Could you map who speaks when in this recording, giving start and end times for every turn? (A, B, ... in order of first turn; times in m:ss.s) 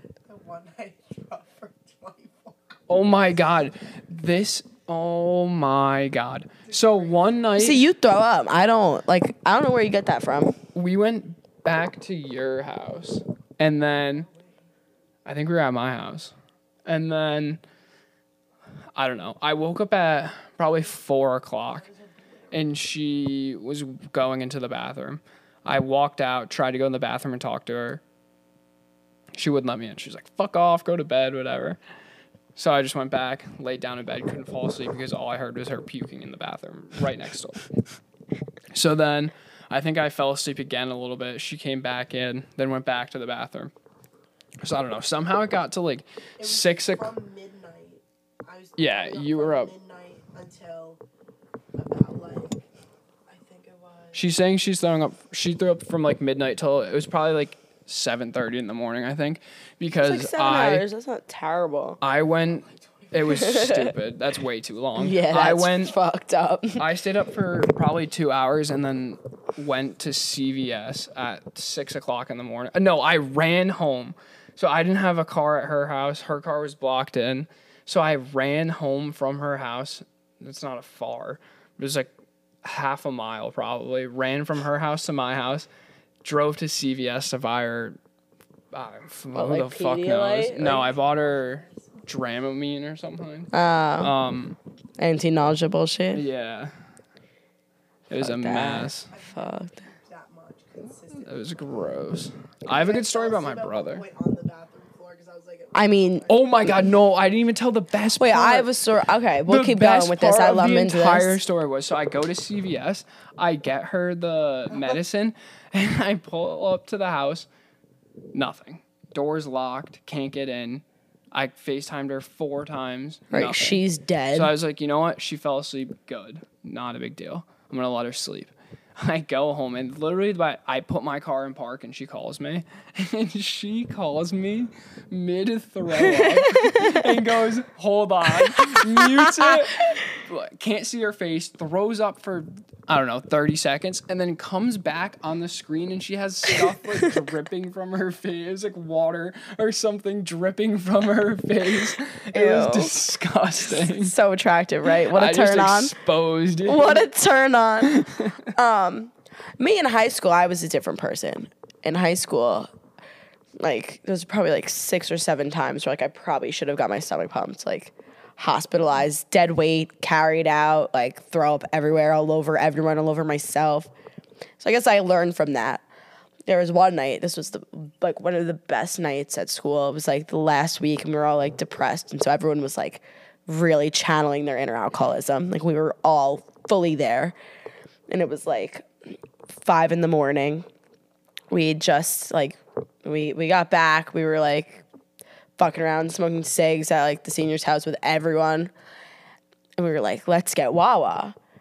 0:00.2-0:02.8 A
0:02.9-0:07.8 B
0:06.7-0:07.4 A
0:07.6-0:10.6 C
0:10.7-0:14.3 B
0:15.3-0:16.3 B
0:16.9-0:17.6 B
0:19.0-0:21.9 B
0:22.5-0:28.0 B
0:29.4-0:31.8 B
0:32.6-0:37.7 B
0:38.7-0:43.7 B
0:44.6-0:47.1 B
0:46.4-0:51.0 A
0:48.8-0:49.7 B
0:51.7-0:52.6 A
0:53.3-0:54.2 A
0:54.1-1:00.8 B
1:00.0-1:02.0 C
1:02.0-1:06.0 B
1:02.6-1:03.1 A
1:03.3-1:03.9 C
1:05.0-1:06.8 C
1:06.8-1:22.1 B
1:22.6-1:25.7 B
1:26.2-1:28.0 B
1:28.7-1:34.6 B
1:29.4-1:30.9 C
1:30.8-1:32.0 A
1:33.5-1:34.1 C
1:35.0-1:36.2 C
1:36.1-1:36.7 B
1:38.1-1:39.1 B
1:38.2-1:39.8 C
1:39.1-1:41.8 A
1:41.1-1:44.0 B
1:42.7-1:46.7 A
1:45.7-1:46.3 C
1:46.3-1:48.7 B
1:48.2-1:51.4 C
1:49.5-1:57.5 B
1:58.3-2:03.8 B
2:03.3-2:04.5 C
2:04.3-2:34.1 B
2:16.0-2:17.2 C
2:18.4-2:19.5 C
2:31.8-2:32.9 C
2:33.7-2:36.0 C
2:35.1-2:37.0 B
2:36.6-2:42.7 C
2:37.8-2:38.5 B
2:43.6-2:53.9 C
2:54.6-2:55.8 C
2:56.5-3:07.3 C
3:08.1-3:08.9 C
3:09.5-3:10.7 C
3:11.5-3:14.8 C
3:15.6-3:18.7 C
3:19.8-3:21.4 C